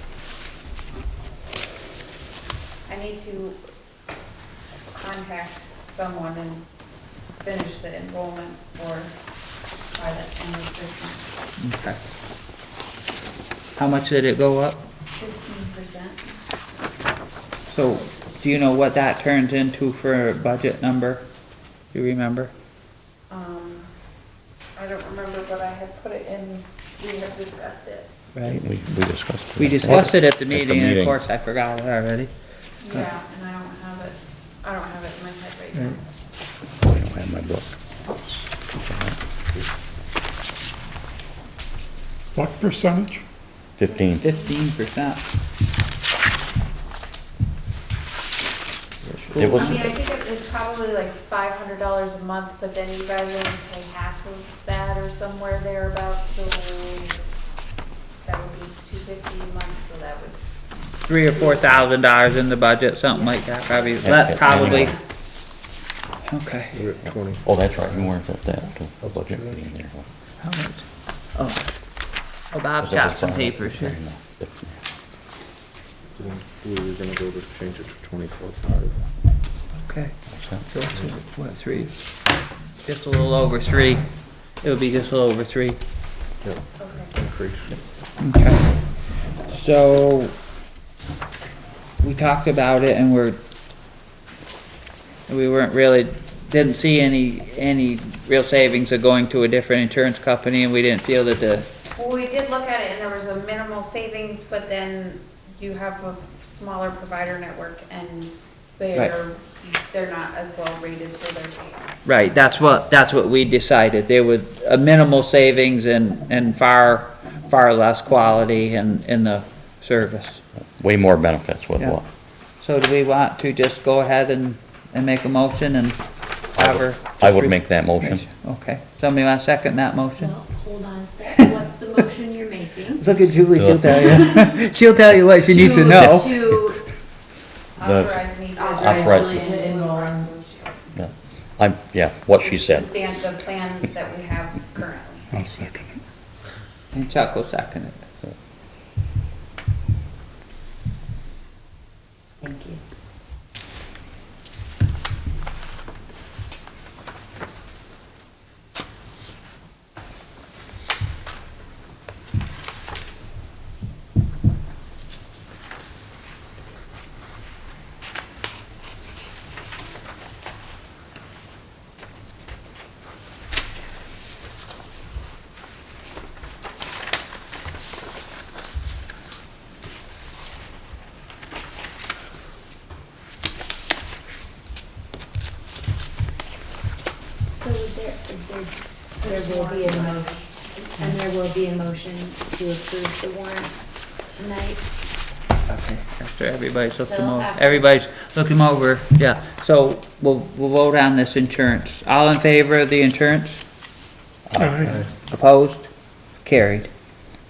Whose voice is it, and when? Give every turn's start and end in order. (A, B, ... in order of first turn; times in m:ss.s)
0:02.9-0:03.6 A
0:04.9-0:06.6 A
0:07.4-0:09.1 A
0:09.9-0:11.3 A
0:11.6-0:12.1 B
0:13.8-0:14.8 B
0:15.2-0:16.3 A
0:17.7-0:21.3 B
0:21.9-0:22.5 B
0:23.3-0:23.9 A
0:24.8-0:28.1 A
0:28.3-0:28.6 B
0:28.4-0:31.2 C
0:29.6-0:32.3 B
0:32.8-0:36.0 A
0:36.8-0:37.7 C
0:38.8-0:39.2 C
0:42.3-0:43.2 D
0:43.8-0:44.4 C
0:44.2-0:45.2 B
0:49.3-0:49.9 B
0:49.3-0:49.9 C
0:49.5-0:57.2 A
0:58.2-1:00.4 A
1:01.1-1:04.9 B
1:03.1-1:04.9 A
1:04.0-1:04.9 C
1:06.2-1:06.8 B
1:06.7-1:08.1 E
1:07.4-1:10.0 C
1:10.4-1:11.6 B
1:12.5-1:14.0 B
1:12.8-1:14.8 C
1:16.2-1:19.0 E
1:19.8-1:21.9 B
1:20.3-1:20.6 C
1:22.8-1:24.0 B
1:24.6-1:25.8 B
1:26.4-1:27.8 E
1:26.8-1:27.1 A
1:28.2-1:28.8 B
1:29.4-1:30.3 B
1:32.0-1:33.4 B
1:35.3-1:41.7 B
1:41.9-1:51.8 A
1:52.0-2:00.4 B
2:00.8-2:02.0 C
2:02.6-2:06.0 B
2:06.5-2:10.4 B
2:06.6-2:08.2 C
2:10.2-2:13.1 F
2:13.0-2:16.5 B
2:13.5-2:14.3 C
2:15.5-2:16.8 F
2:15.9-2:16.7 C
2:17.8-2:20.8 A
2:17.8-2:19.5 C
2:18.6-2:19.9 F
2:21.0-2:22.9 C
2:22.4-2:25.2 A
2:25.3-2:26.0 D
2:26.9-2:28.0 B
2:32.4-2:32.8 F
3:07.5-3:10.4 F
3:09.2-3:10.9 A
3:11.0-3:14.8 F
3:15.7-3:23.6 B
3:16.9-3:17.8 F
3:24.5-3:25.0 C
3:24.6-3:25.0 D
3:25.3-3:26.9 B